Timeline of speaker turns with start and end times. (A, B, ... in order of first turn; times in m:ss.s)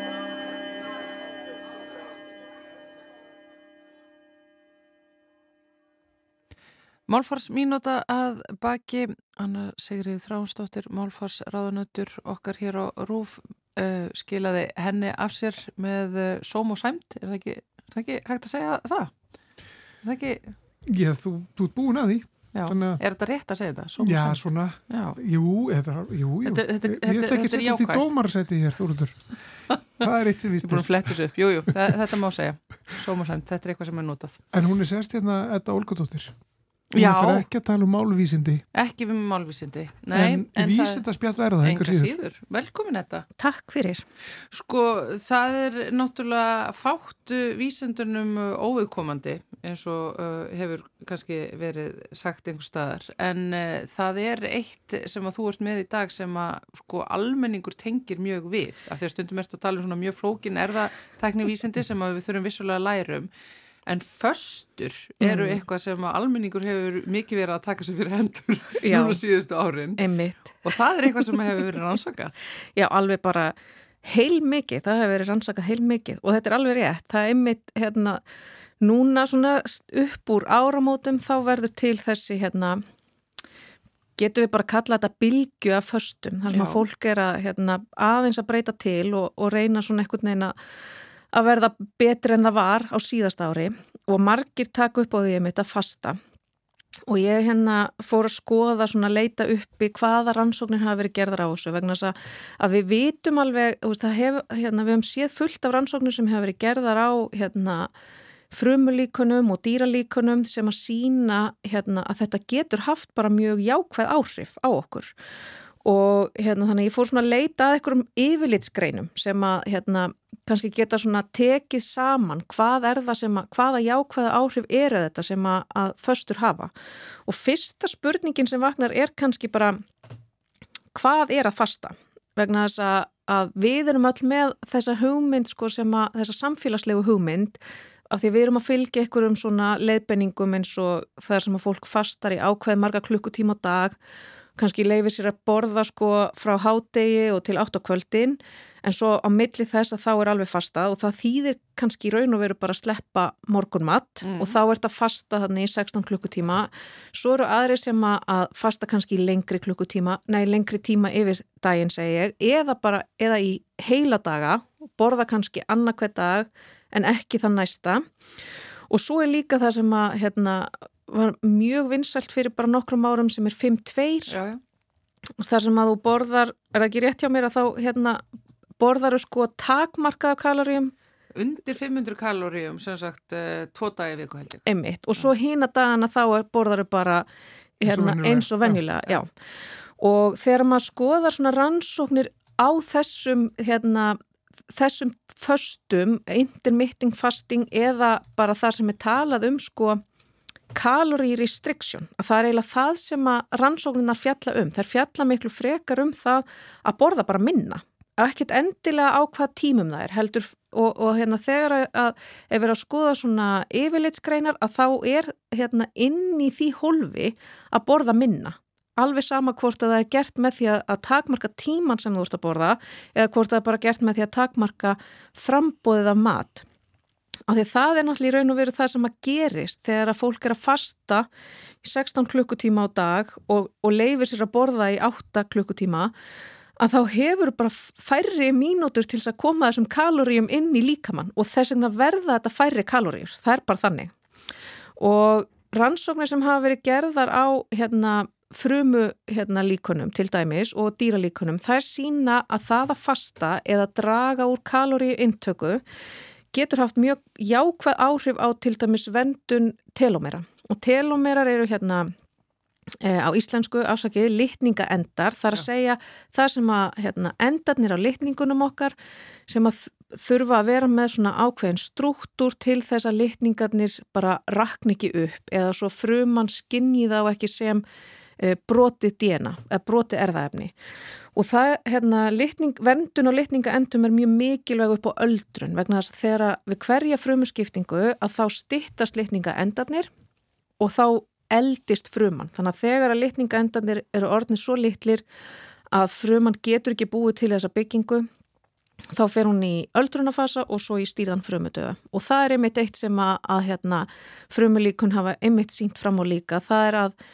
0:07.1-0:19.2 A
0:20.0-0:20.6 A
0:20.9-0:23.0 B
0:22.5-0:25.2 A
0:24.0-0:31.2 B
0:26.4-0:28.0 A
0:30.6-0:34.4 A
0:34.5-0:36.4 B
0:36.9-0:37.5 A
0:36.9-0:38.6 B
0:38.7-0:41.1 A
0:40.1-0:42.1 B
0:41.6-0:43.3 A
0:43.4-0:44.0 C
0:44.5-1:03.3 A
1:03.9-1:10.0 A
1:05.2-1:05.6 C
1:08.8-1:09.2 C
1:10.0-1:10.6 C
1:10.6-1:12.3 A
1:12.8-1:18.2 C
1:18.8-1:22.8 C
1:24.2-1:30.6 C
1:26.5-1:26.8 A
1:31.3-1:36.2 C
1:37.1-1:47.9 C
1:48.5-1:55.1 C
1:55.8-2:06.7 C
2:07.3-2:09.8 C
2:10.9-2:24.0 C
2:24.6-2:48.1 C
2:34.2-2:34.6 A
2:48.9-2:54.4 C
2:54.3-2:54.6 A
2:55.4-2:58.2 C
2:58.8-3:00.9 C
3:01.4-3:05.3 A
3:04.7-3:07.3 C
3:07.8-3:08.8 B
3:07.8-3:09.3 C
3:10.0-3:14.2 C
3:14.7-3:20.0 C
3:20.7-3:46.6 C
3:47.5-3:51.3 C
3:51.8-3:56.1 C
3:56.8-4:04.1 C
4:05.0-4:15.8 C
4:16.5-4:22.1 C
4:23.0-4:29.0 C
4:29.5-4:37.8 C
4:38.4-4:40.7 C
4:41.3-4:50.1 C
4:50.8-4:55.2 C
4:55.9-4:58.3 C
4:59.1-5:07.2 C